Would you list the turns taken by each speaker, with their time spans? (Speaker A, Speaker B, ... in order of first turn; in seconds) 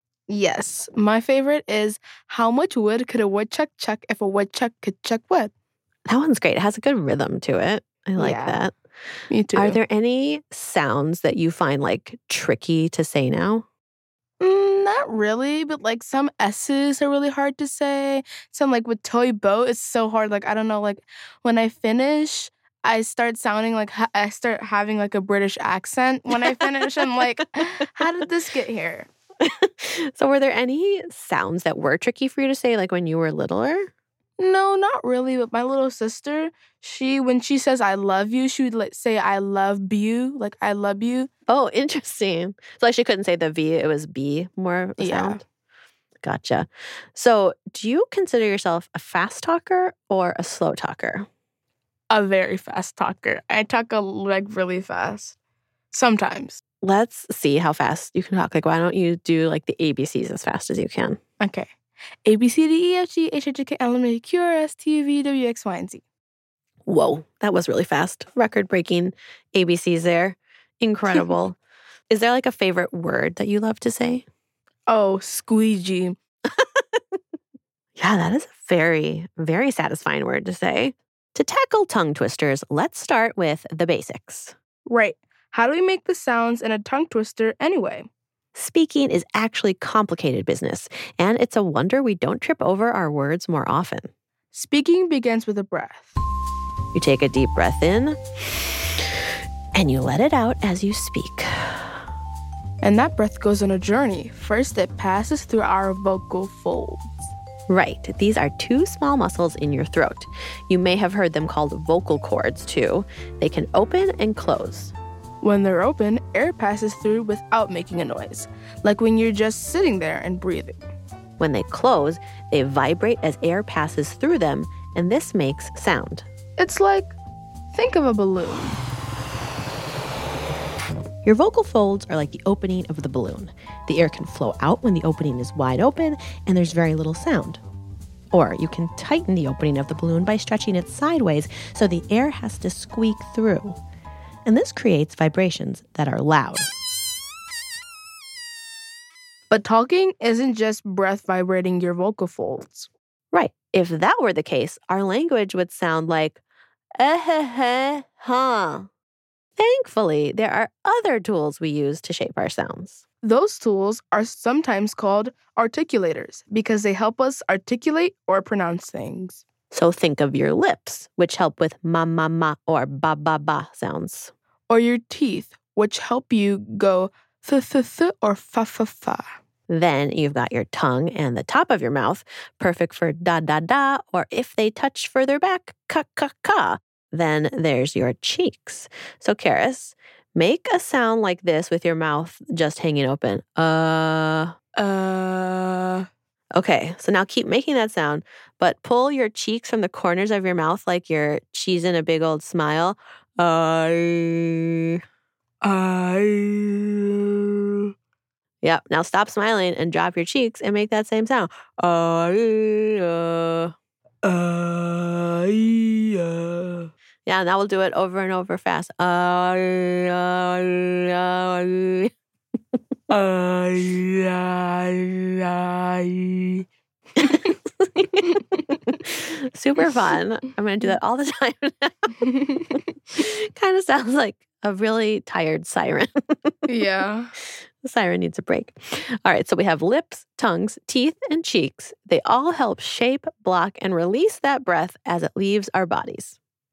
Speaker A: 0.3-5.5, 8.2-8.6, 9.3-9.8, 14.4-29.1, 34.4-41.3, 45.0-45.4, 52.1-55.3, 55.9-56.6, 61.4-61.7, 62.2-66.0, 74.9-76.2, 84.9-88.1, 94.5-96.2, 102.8-107.2, 115.4-120.8, 126.6-127.1, 127.7-128.8, 149.5-152.9, 163.2-169.4, 174.7-179.3, 194.8-196.1, 205.6-206.9, 214.2-216.8, 223.1-226.6, 232.2-232.7, 236.7-237.3
Speaker B: 6.0-8.7, 9.5-13.6, 29.4-33.9, 41.5-45.4, 46.2-51.3, 56.8-61.2, 66.8-71.5, 72.1-74.2, 78.0-84.5, 88.5-94.1, 96.9-98.2, 99.7-102.0, 107.7-114.9, 121.4-126.2, 131.2-137.6, 138.3-143.8, 144.4-146.7, 153.3-156.4, 157.0-158.9, 159.6-163.0, 169.7-174.3, 179.7-194.5, 196.5-204.6, 208.6-213.7, 217.2-222.1, 227.2-232.3, 233.1-236.5, 237.8-246.4